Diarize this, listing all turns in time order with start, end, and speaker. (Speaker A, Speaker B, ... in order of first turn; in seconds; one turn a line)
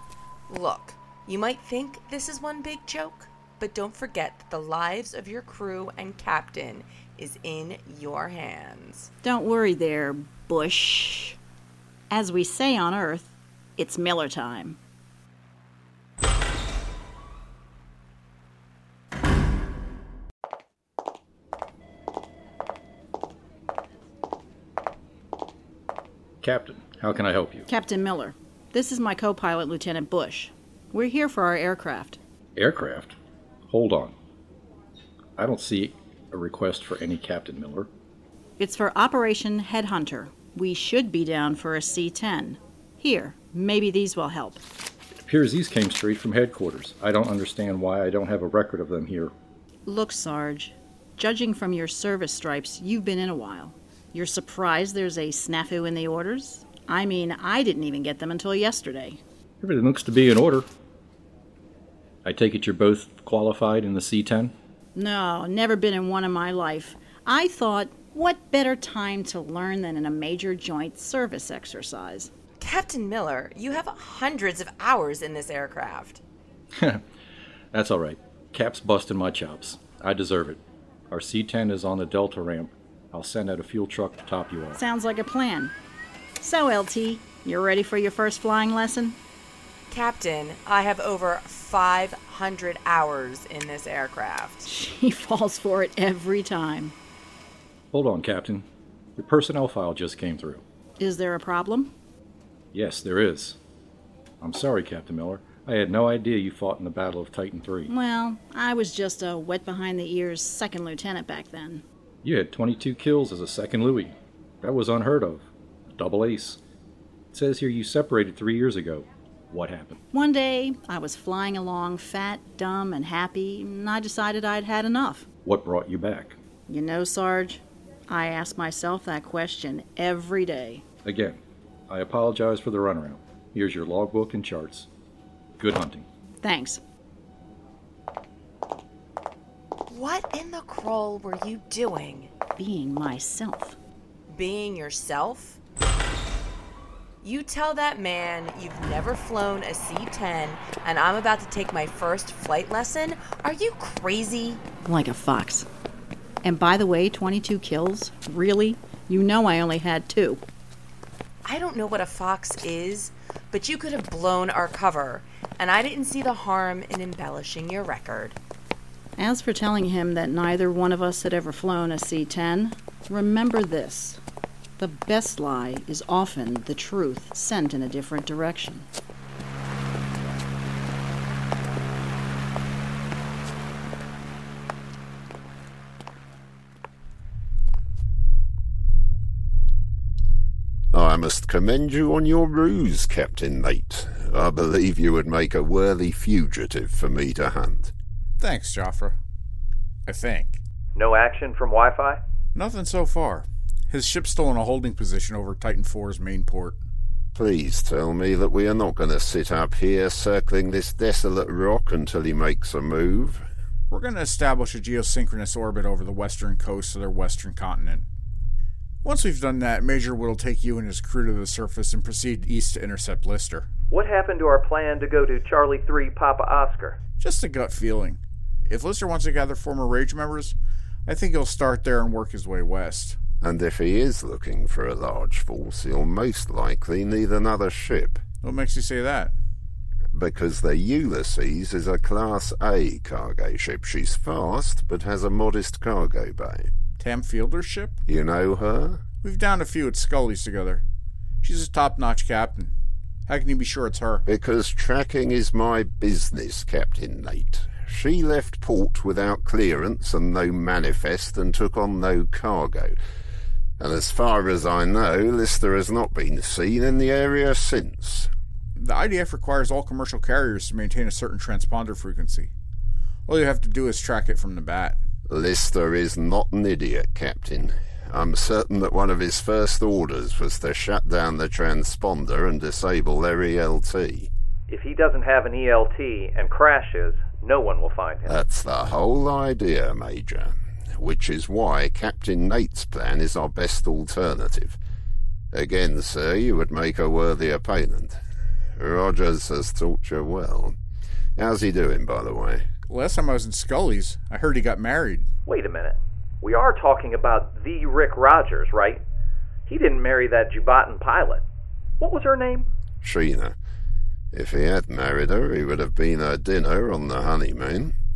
Speaker A: 0.5-9.1
Speaker B: 9.2-11.4
Speaker B: 12.1-14.8
Speaker C: 26.4-27.7
Speaker B: 27.7-32.2
Speaker C: 32.5-33.1
Speaker C: 33.7-34.1
Speaker C: 35.4-37.9
Speaker B: 38.6-44.6
Speaker C: 45.2-49.3
Speaker B: 49.9-59.2
Speaker C: 59.6-60.7
Speaker C: 62.2-64.5
Speaker B: 64.9-72.3
Speaker A: 72.6-76.2
Speaker C: 76.8-77.0
Speaker C: 77.7-84.8
Speaker B: 84.8-85.7
Speaker B: 86.4-89.2
Speaker A: 89.9-94.7
Speaker B: 94.6-96.9
Speaker C: 97.9-100.6
Speaker B: 101.0-101.9
Speaker C: 102.7-103.6
Speaker C: 104.4-107.9
Speaker B: 107.9-111.8
Speaker C: 112.2-116.6
Speaker C: 117.3-120.0
Speaker B: 120.1-125.3
Speaker C: 125.4-126.4
Speaker B: 126.7-130.8
Speaker C: 131.0-134.9
Speaker C: 135.6-136.1
Speaker B: 136.4-136.8
Speaker A: 139.9-142.3
Speaker B: 142.6-143.8
Speaker A: 144.3-145.6
Speaker A: 147.2-154.6
Speaker B: 154.8-155.7
Speaker B: 156.4-160.4
Speaker A: 161.4-168.4
Speaker B: 169.2-174.2
Speaker B: 174.8-178.9
Speaker D: 190.9-197.9
Speaker E: 198.4-199.2
Speaker E: 200.1-200.6
Speaker F: 200.9-202.2
Speaker E: 202.5-206.8
Speaker D: 207.3-213.5
Speaker E: 213.9-218.1
Speaker E: 219.0-223.7
Speaker F: 223.9-227.0
Speaker E: 227.2-233.2
Speaker D: 233.4-238.2
Speaker E: 238.4-239.3
Speaker D: 240.1-246.7
Speaker E: 247.0-248.0
Speaker D: 248.1-249.0
Speaker E: 249.2-250.8
Speaker E: 251.4-252.7
Speaker E: 253.3-254.2
Speaker D: 254.2-262.9
Speaker D: 263.8-268.3
Speaker E: 268.8-272.5
Speaker E: 273.3-275.0
Speaker D: 275.3-284.3
Speaker F: 284.7-288.4
Speaker D: 288.3-294.8
Speaker D: 295.5-298.2
Speaker D: 298.8-300.8
Speaker D: 301.4-302.6
Speaker E: 302.9-305.3
Speaker F: 305.4-309.0
Speaker F: 309.7-311.4
Speaker F: 312.0-312.7
Speaker D: 313.0-313.6
Speaker D: 314.3-317.9